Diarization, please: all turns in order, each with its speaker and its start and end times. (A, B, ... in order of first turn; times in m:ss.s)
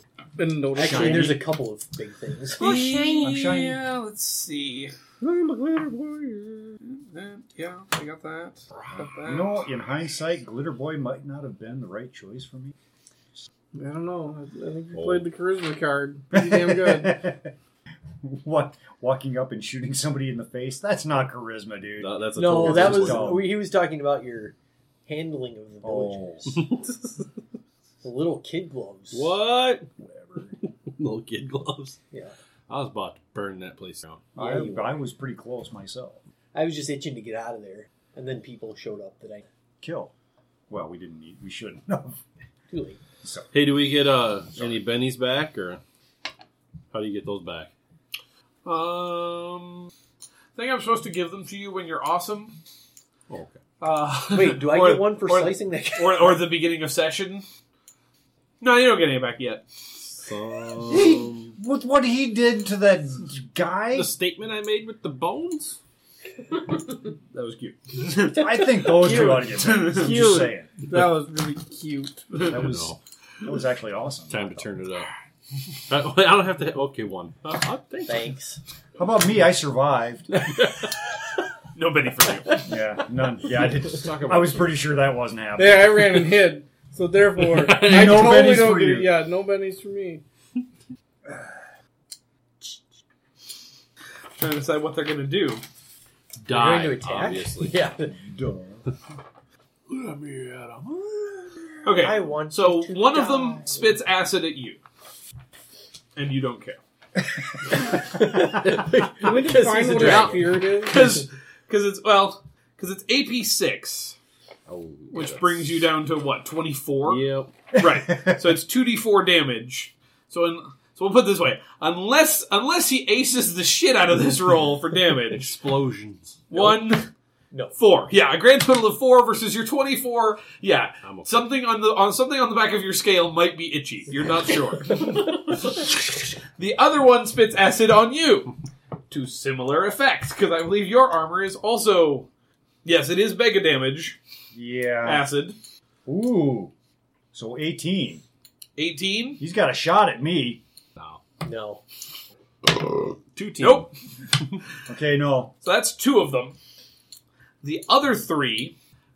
0:00.4-0:01.4 A
0:00.8-0:02.9 B
0:00.8-0:01.4 C
0:02.6-0:04.9 D
0:03.0-0:03.8 C
0:05.2-0:06.8 A
0:06.8-0:09.6 D
0:09.2-0:12.7 C
0:13.7-0:17.3 A
0:14.9-0:15.3 E
0:16.3-0:17.5 C
0:18.2-0:23.5 C
0:22.0-0:23.4 E
0:22.3-0:24.5 B
0:25.1-0:26.7 B
0:25.8-0:26.6 C
0:26.6-0:26.8 E
0:28.0-0:29.4 B
0:29.1-0:29.9 E
0:30.6-0:32.0 E
0:32.7-0:34.3 E
0:34.3-0:36.2 C
0:34.4-0:35.1 B
0:36.5-0:39.4 B
0:39.8-0:40.1 C
0:40.7-0:42.2 C
0:42.7-0:43.0 B
0:43.2-0:43.5 C
0:43.5-0:45.8 E
0:44.6-0:44.8 C
0:46.9-0:47.7 E
0:48.6-0:49.9 D
0:50.6-0:52.6 D
0:53.3-0:53.6 E
0:53.8-0:57.4 D
0:54.3-0:56.4 B
0:58.6-0:59.6 D
1:00.2-1:01.6 E
1:00.9-1:04.1 C
1:03.9-1:05.8 E
1:07.3-1:10.2 D
1:08.2-1:10.7 C
1:09.8-1:12.3 A
1:12.4-1:13.0 E
1:12.4-1:14.6 C
1:14.3-1:15.1 E
1:15.9-1:18.3 E
1:18.0-1:18.6 B
1:19.0-1:20.3 C
1:20.3-1:20.9 E
1:21.7-1:22.7 D
1:22.6-1:26.2 C
1:23.9-1:24.8 E
1:25.6-1:30.2 A
1:27.4-1:28.4 E
1:27.8-1:29.1 C
1:34.4-1:35.6 D
1:36.4-1:37.8 E
1:36.5-1:38.1 B
1:38.1-1:38.8 C
1:39.9-1:41.5 E
1:41.8-1:44.8 D
1:42.0-1:44.0 B
1:46.2-1:46.8 D
1:47.7-1:51.2 B
1:49.2-1:51.0 A
1:50.0-1:54.2 D
1:54.7-1:55.7 E
1:55.1-2:05.5 D
1:57.0-1:57.6 E
2:05.3-2:06.5 E
2:06.5-2:07.1 D
2:06.5-2:06.8 B
2:07.8-2:18.5 D
2:11.0-2:11.4 E
2:19.1-2:22.3 D
2:22.8-2:24.2 D
2:24.5-2:25.3 C
2:25.0-2:25.6 D
2:26.0-2:26.7 C
2:27.3-2:28.2 C
2:28.8-2:29.4 D
2:29.4-2:30.6 C
2:31.0-2:31.2 E
2:31.4-2:31.8 B
2:33.3-2:33.9 E
2:33.6-2:33.9 D
2:34.9-2:35.5 C
2:35.6-2:36.5 D
2:37.6-2:38.7 D